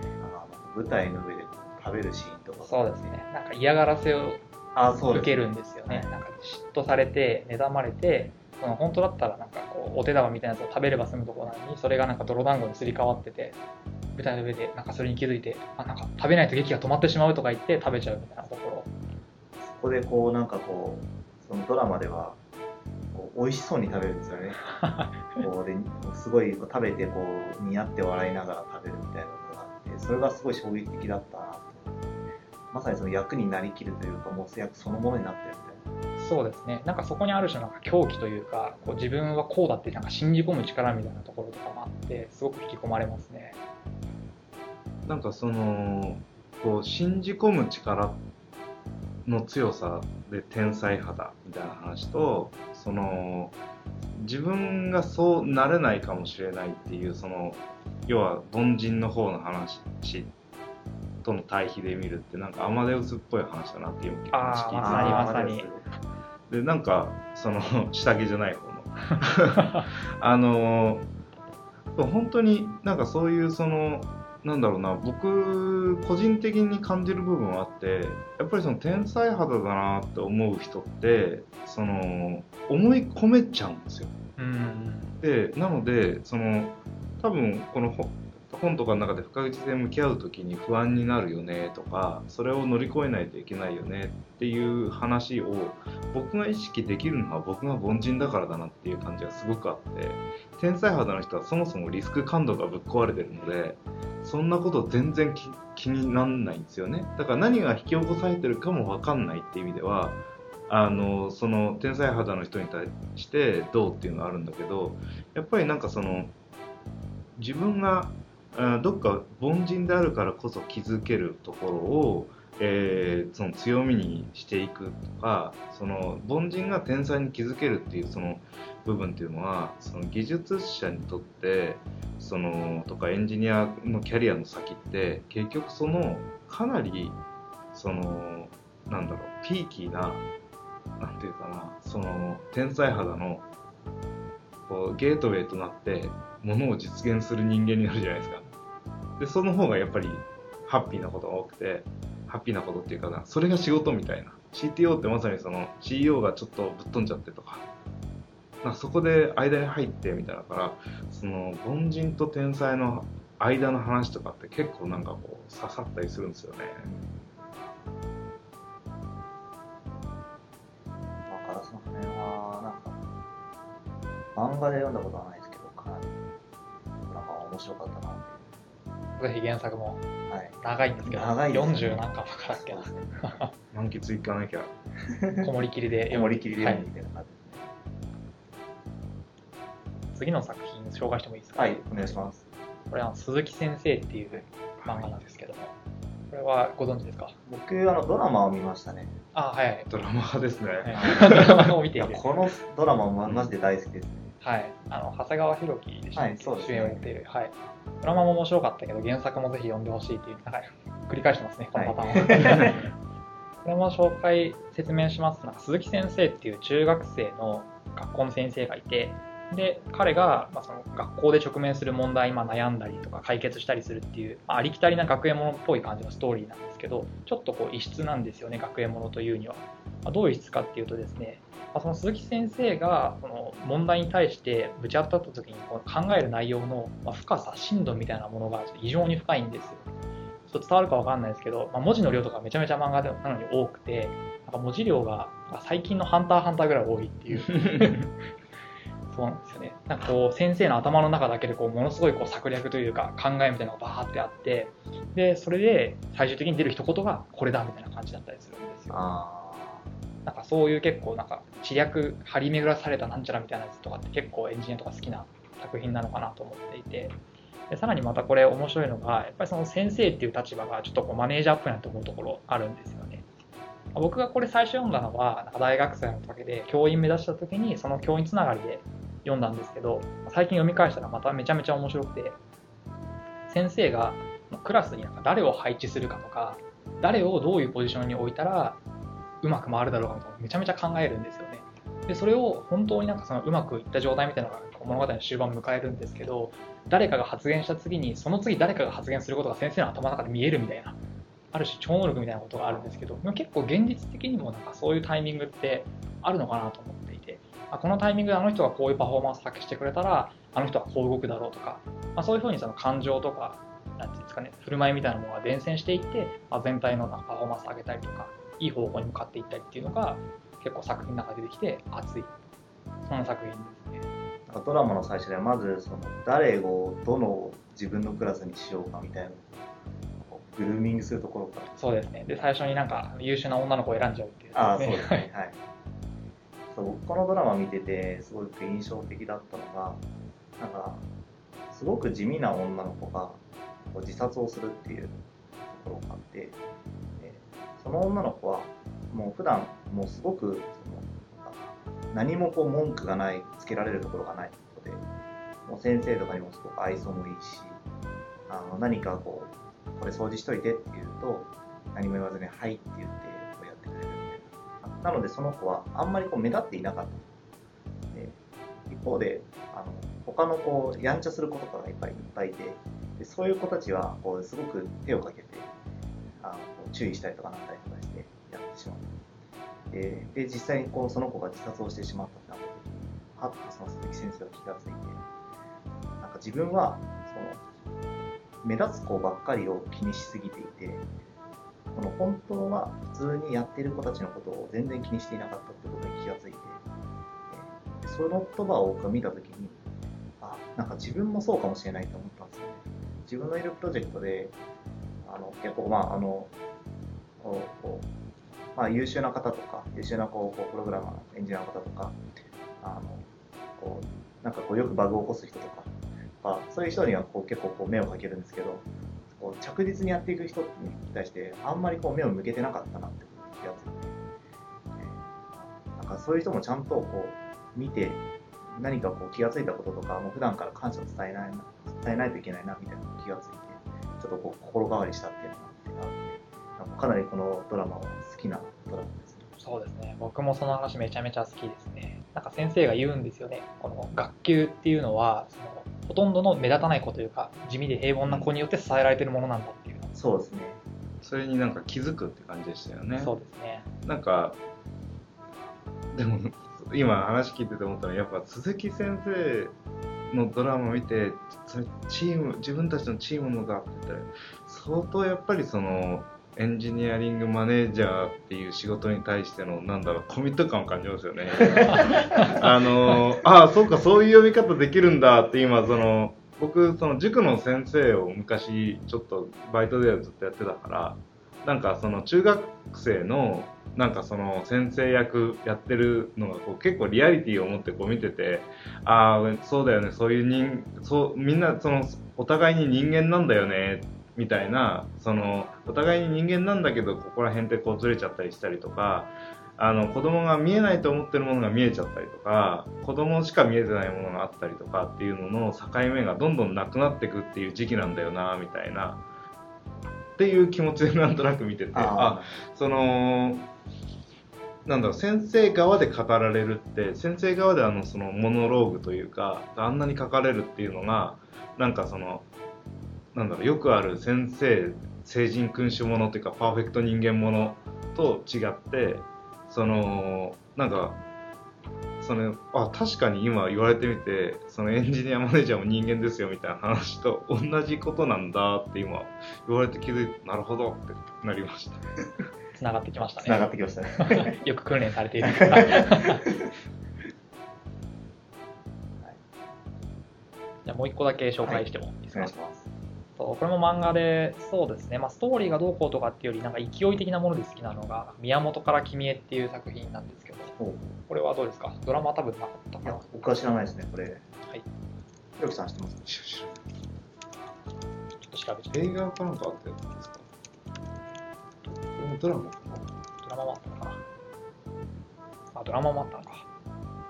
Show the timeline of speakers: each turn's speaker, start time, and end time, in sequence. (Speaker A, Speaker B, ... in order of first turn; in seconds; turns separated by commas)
Speaker A: 0.2-3.2, Speaker B: 2.6-4.4, Speaker A: 4.8-6.1, Speaker B: 5.0-13.6, Speaker B: 14.1-18.9, Speaker A: 19.6-22.4, Speaker A: 23.1-24.6, Speaker B: 24.8-25.1, Speaker A: 25.3-32.0, Speaker A: 32.7-35.8, Speaker B: 36.2-43.6, Speaker C: 45.1-48.2, Speaker C: 49.2-53.5, Speaker C: 54.2-60.3, Speaker C: 61.2-65.3, Speaker B: 64.3-65.7, Speaker A: 64.8-65.8, Speaker C: 66.5-71.1, Speaker C: 72.0-84.1, Speaker B: 84.4-85.2, Speaker C: 85.2-116.3, Speaker C: 117.4-137.2, Speaker C: 137.7-140.2, Speaker C: 141.0-143.4, Speaker C: 144.7-148.4, Speaker C: 149.2-157.6, Speaker C: 158.6-166.9, Speaker A: 166.8-167.4, Speaker A: 171.3-173.0, Speaker A: 174.3-176.2, Speaker A: 177.0-178.6, Speaker B: 179.2-180.0, Speaker A: 180.3-183.3, Speaker B: 180.6-183.5, Speaker C: 183.7-184.7, Speaker A: 185.1-185.5, Speaker B: 185.4-186.8, Speaker A: 186.1-187.7, Speaker B: 190.1-192.2, Speaker A: 191.6-192.4, Speaker B: 192.9-195.7, Speaker C: 194.8-195.3, Speaker B: 196.3-197.4, Speaker A: 197.5-199.2, Speaker B: 199.3-199.9, Speaker C: 199.9-201.7, Speaker B: 200.8-202.2, Speaker A: 200.9-204.3, Speaker B: 204.4-212.8, Speaker A: 206.2-207.1, Speaker A: 211.8-212.8, Speaker B: 213.6-239.9, Speaker B: 240.5-248.1, Speaker C: 247.5-248.0, Speaker B: 249.1-259.1, Speaker A: 258.9-259.9, Speaker B: 260.2-267.2, Speaker B: 267.7-273.2, Speaker B: 273.9-282.4, Speaker B: 283.5-288.8, Speaker B: 289.4-301.0, Speaker B: 301.5-322.3, Speaker B: 323.1-324.1, Speaker A: 324.5-329.7, Speaker A: 330.2-331.8, Speaker B: 331.8-335.2, Speaker A: 334.6-335.6, Speaker A: 336.7-340.0, Speaker A: 340.6-341.0, Speaker A: 341.7-343.4, Speaker A: 343.9-346.6, Speaker A: 347.2-355.1, Speaker A: 355.7-357.8, Speaker A: 358.5-367.3, Speaker A: 368.1-375.7, Speaker A: 376.4-379.1, Speaker A: 379.9-385.2, Speaker A: 386.2-387.6, Speaker A: 388.6-391.0, Speaker A: 391.9-396.8, Speaker A: 397.5-399.8, Speaker A: 400.4-404.6, Speaker A: 405.2-406.5, Speaker A: 407.4-408.1, Speaker A: 408.8-412.2, Speaker A: 412.8-424.2, Speaker A: 425.0-439.5, Speaker B: 439.6-450.1, Speaker A: 450.1-450.8, Speaker C: 451.2-453.3, Speaker B: 453.2-453.9, Speaker C: 454.0-454.6, Speaker C: 456.1-459.7, Speaker C: 460.3-509.2, Speaker A: 471.6-472.1, Speaker C: 510.4-513.7, Speaker A: 511.9-512.6, Speaker C: 514.9-522.5, Speaker C: 523.3-531.2, Speaker C: 532.2-542.1, Speaker B: 542.8-546.5, Speaker A: 543.4-544.5, Speaker A: 545.5-546.7, Speaker B: 550.9-552.5, Speaker A: 551.6-552.9, Speaker B: 553.4-560.8, Speaker A: 560.8-561.2, Speaker B: 561.3-563.3, Speaker A: 563.0-564.4, Speaker A: 565.6-566.3, Speaker C: 566.3-566.8, Speaker B: 568.4-569.1, Speaker C: 568.9-570.5, Speaker C: 571.9-573.1, Speaker B: 573.4-574.2, Speaker B: 575.7-576.7